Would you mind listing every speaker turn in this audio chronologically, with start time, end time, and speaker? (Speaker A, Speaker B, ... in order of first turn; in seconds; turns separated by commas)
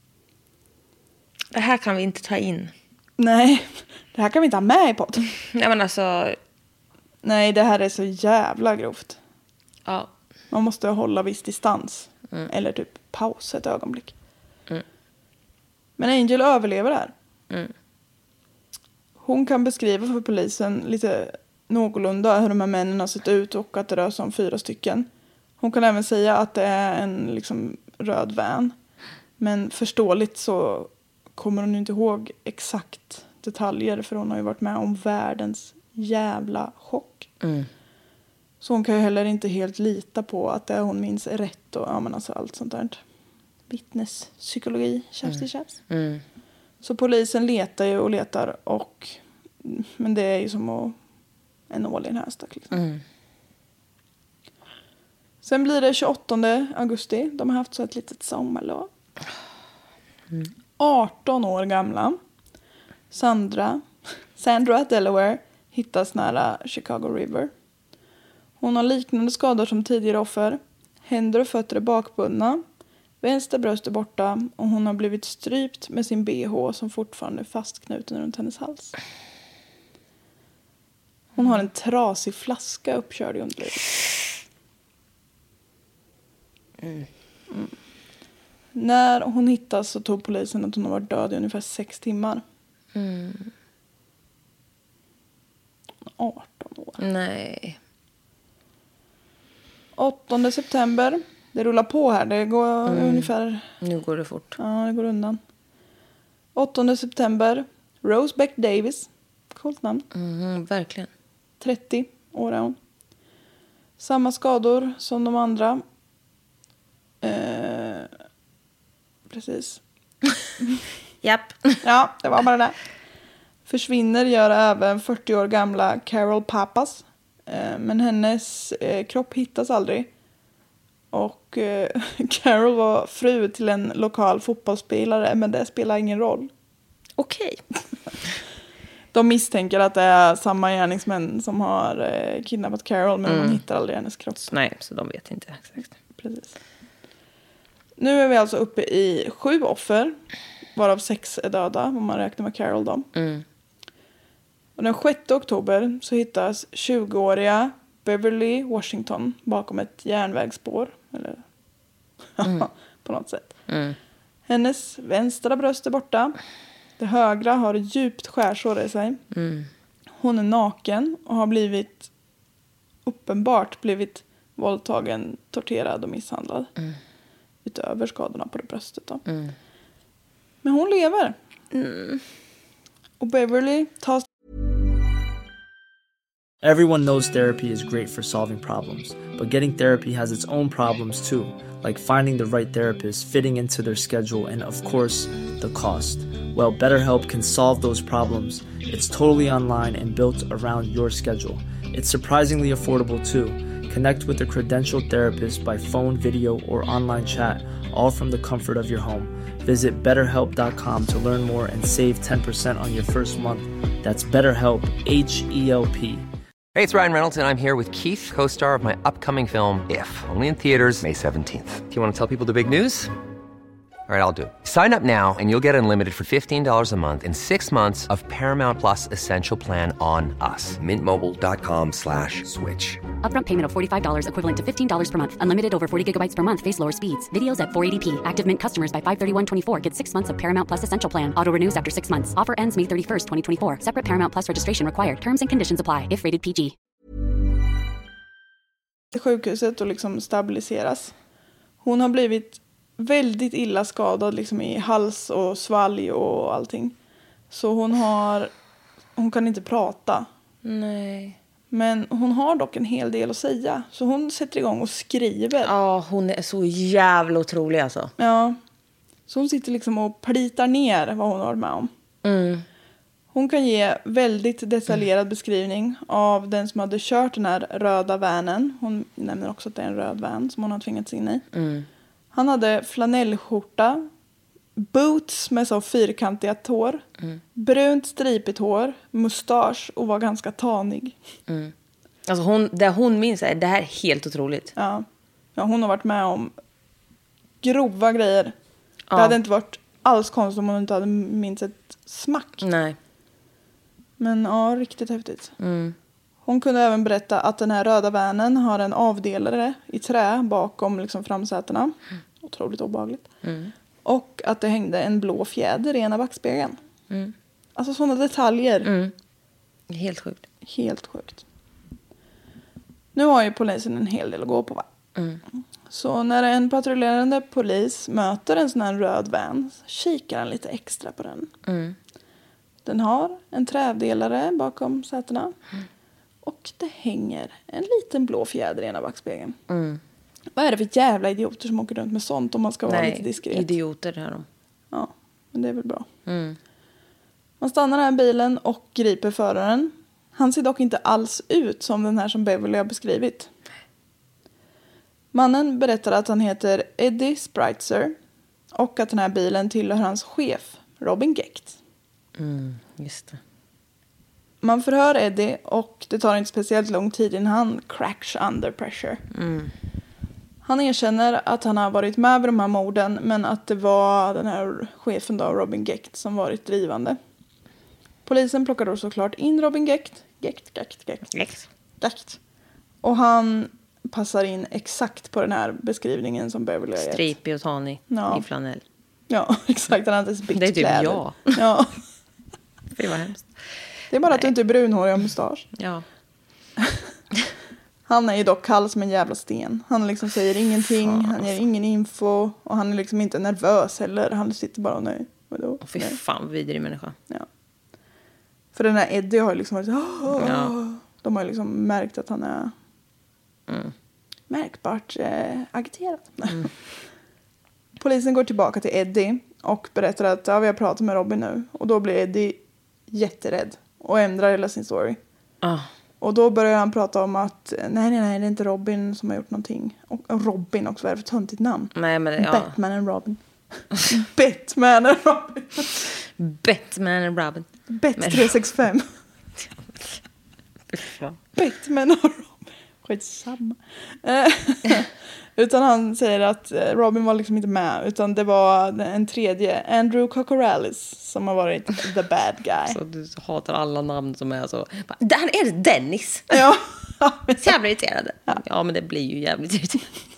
Speaker A: 1.5-2.7, Speaker B: 3.2-5.2, Speaker A: 5.3-6.4, Speaker B: 7.2-9.2, Speaker A: 9.8-10.1, Speaker B: 10.5-14.1, Speaker B: 16.0-17.1, Speaker B: 19.2-25.1, Speaker B: 25.6-28.7, Speaker B: 29.4-37.3, Speaker A: 37.4-37.7, Speaker B: 38.6-43.0, Speaker B: 43.7-45.7, Speaker A: 45.2-46.2, Speaker B: 46.8-51.0, Speaker B: 51.7-52.8, Speaker A: 52.7-53.0, Speaker B: 55.4-58.9, Speaker B: 60.8-62.2, Speaker B: 63.1-63.8, Speaker B: 64.4-67.5, Speaker B: 68.6-72.6, Speaker B: 73.2-78.9, Speaker B: 81.3-83.9, Speaker A: 86.8-87.1, Speaker B: 88.7-92.4, Speaker A: 92.9-93.5, Speaker B: 96.2-97.0, Speaker A: 97.0-97.8, Speaker B: 100.0-103.7, Speaker A: 102.8-104.6, Speaker B: 104.6-105.4, Speaker B: 106.5-110.0, Speaker A: 110.1-111.1, Speaker B: 111.6-112.8, Speaker B: 114.0-115.8, Speaker B: 117.2-118.1, Speaker B: 119.3-119.8, Speaker A: 121.2-121.8, Speaker B: 121.8-122.8, Speaker B: 123.7-130.1, Speaker B: 131.1-136.5, Speaker A: 137.2-137.6, Speaker B: 139.1-144.5, Speaker A: 143.2-143.6, Speaker A: 144.4-145.9, Speaker B: 146.2-146.5, Speaker B: 148.0-150.2, Speaker B: 150.8-153.1, Speaker A: 153.1-153.4, Speaker B: 154.8-161.4, Speaker B: 162.4-163.5, Speaker A: 163.7-164.0, Speaker B: 164.5-166.3, Speaker B: 167.0-169.2, Speaker A: 169.3-169.7, Speaker B: 170.2-172.1, Speaker B: 173.0-176.7, Speaker B: 177.6-179.2, Speaker A: 179.2-179.5, Speaker B: 180.6-181.3, Speaker A: 181.7-182.2, Speaker B: 183.2-184.2, Speaker C: 186.6-216.3, Speaker D: 216.7-223.1, Speaker D: 224.1-233.0, Speaker E: 233.2-246.7, Speaker B: 249.1-251.1, Speaker B: 251.8-256.9, Speaker B: 257.5-258.5, Speaker B: 259.1-260.3, Speaker A: 260.6-261.4, Speaker B: 261.7-265.7, Speaker A: 265.6-268.1, Speaker B: 268.2-268.6, Speaker B: 269.3-271.9, Speaker A: 272.2-272.6, Speaker B: 273.3-281.4, Speaker A: 281.5-281.9, Speaker B: 282.3-284.1, Speaker B: 284.8-287.0, Speaker B: 287.5-291.1, Speaker A: 291.5-291.7, Speaker A: 292.2-294.7, Speaker B: 294.7-296.5, Speaker B: 297.6-298.5, Speaker A: 299.1-299.4, Speaker B: 299.1-302.6, Speaker A: 302.6-303.0, Speaker B: 304.2-305.5, Speaker A: 305.6-305.9, Speaker B: 306.4-313.2, Speaker A: 313.4-313.7, Speaker B: 314.0-316.8, Speaker B: 317.8-318.9, Speaker A: 318.8-319.1, Speaker A: 319.9-320.4, Speaker B: 320.6-321.4, Speaker B: 323.1-324.8, Speaker A: 325.1-325.4, Speaker B: 325.9-331.5, Speaker A: 331.6-331.9, Speaker B: 332.8-335.5, Speaker B: 336.4-339.6, Speaker A: 339.7-340.0, Speaker B: 340.5-343.7, Speaker A: 342.9-344.5, Speaker B: 344.9-346.1, Speaker A: 346.2-346.6, Speaker B: 347.6-353.5, Speaker B: 355.3-358.1, Speaker B: 358.7-361.8, Speaker A: 362.4-363.4, Speaker B: 364.6-369.2, Speaker A: 369.3-369.7, Speaker B: 370.6-377.2, Speaker B: 378.2-381.3, Speaker A: 381.3-381.7, Speaker B: 382.0-382.4, Speaker B: 383.0-387.3, Speaker A: 387.0-388.8, Speaker B: 388.1-388.4, Speaker B: 389.3-391.9, Speaker A: 390.5-391.6, Speaker A: 392.9-393.5, Speaker B: 394.1-395.7, Speaker A: 395.7-396.0, Speaker B: 398.1-406.2, Speaker A: 400.9-401.5, Speaker A: 405.8-407.1, Speaker B: 408.7-412.7, Speaker A: 410.4-410.7, Speaker A: 413.7-413.9, Speaker B: 414.5-416.7, Speaker B: 418.0-425.2, Speaker A: 425.6-425.9, Speaker B: 426.2-433.4, Speaker A: 431.9-432.8, Speaker B: 433.9-435.9, Speaker A: 436.4-438.5, Speaker B: 437.9-439.1, Speaker A: 440.9-441.4, Speaker B: 441.6-453.0, Speaker A: 452.9-456.6, Speaker B: 456.5-457.7, Speaker A: 457.6-460.1